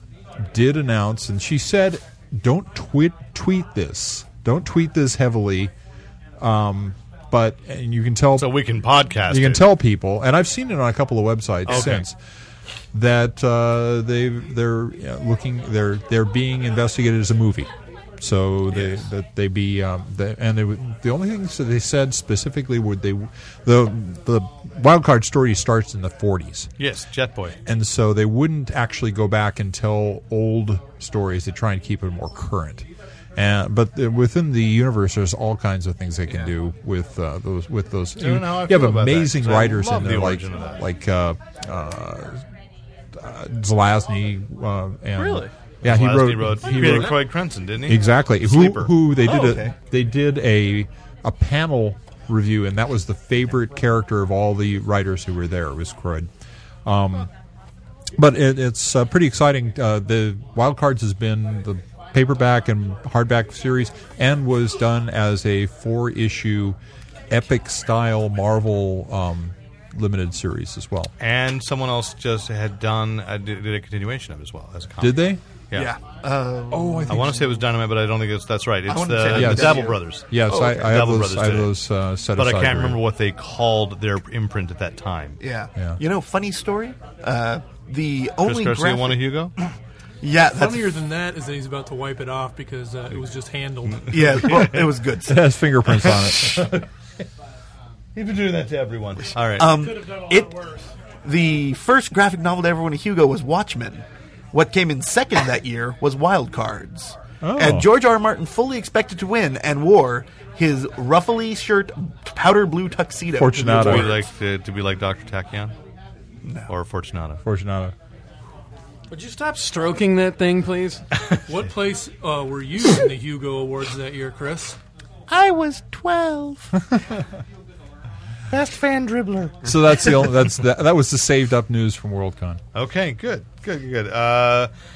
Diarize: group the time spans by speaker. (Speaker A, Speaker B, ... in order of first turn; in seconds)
Speaker A: 0.4-5.7, 6.4-8.7, 9.3-12.2, 12.9-26.7, 27.6-42.4, 43.1-47.2, 47.9-56.3, 56.8-57.3, 58.2-66.8, 67.3-71.1, 75.0-75.4, 76.8-77.3, 79.3-83.0, 95.2-96.8, 107.4-107.9, 113.3-114.2, 117.4-117.9, 129.6-132.6
Speaker B: 8.4-9.7, 11.7-12.1, 18.7-19.0, 26.8-27.6, 38.2-40.8, 45.8-48.9, 71.2-75.9, 77.0-81.7, 82.3-85.4, 88.4-89.5, 94.1-94.8, 95.8-96.8, 98.1-99.8, 113.7-115.7, 116.7-117.4, 128.5-129.7, 132.7-134.7
Speaker C: 45.2-45.5, 119.1-121.0
Speaker D: 49.2-49.7, 75.7-77.5, 78.9-81.0, 85.4-91.0, 94.1-95.5, 99.4-114.2, 125.3-126.7
Speaker E: 90.4-94.4, 121.5-124.8